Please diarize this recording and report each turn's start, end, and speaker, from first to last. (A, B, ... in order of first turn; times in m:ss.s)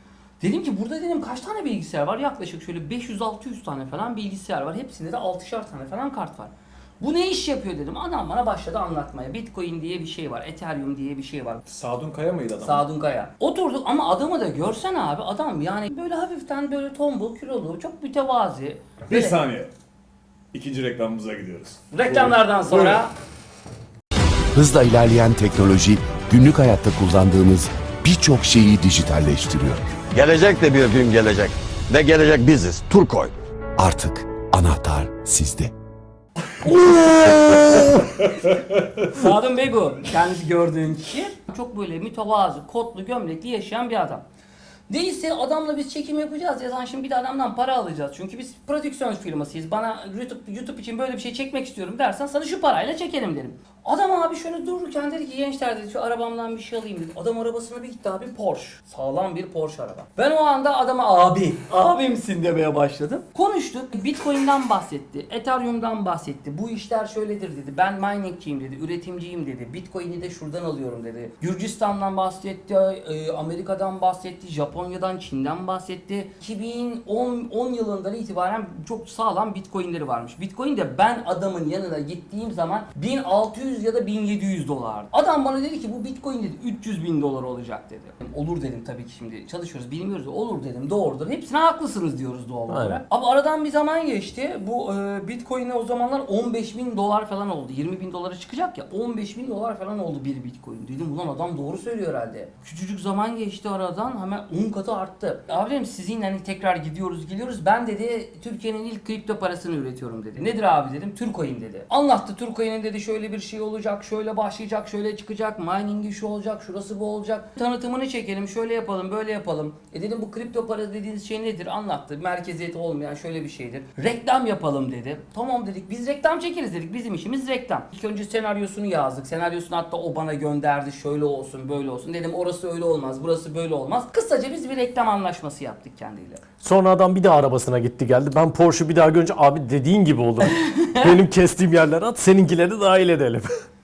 0:00.4-0:11.6 A
0:11.6-0:12.8 B
0:12.6-0:19.4 A
0:19.1-0:19.7 B
0:20.5-0:23.0 B
0:21.9-0:23.1 A
0:24.5-0:29.8 C
0:30.1-0:33.3 D
0:33.8-0:35.7 C
0:36.6-0:44.2 A
0:44.9-2:16.4 A
1:32.7-1:33.0 E
2:16.6-2:23.5 E
2:20.5-2:21.2 A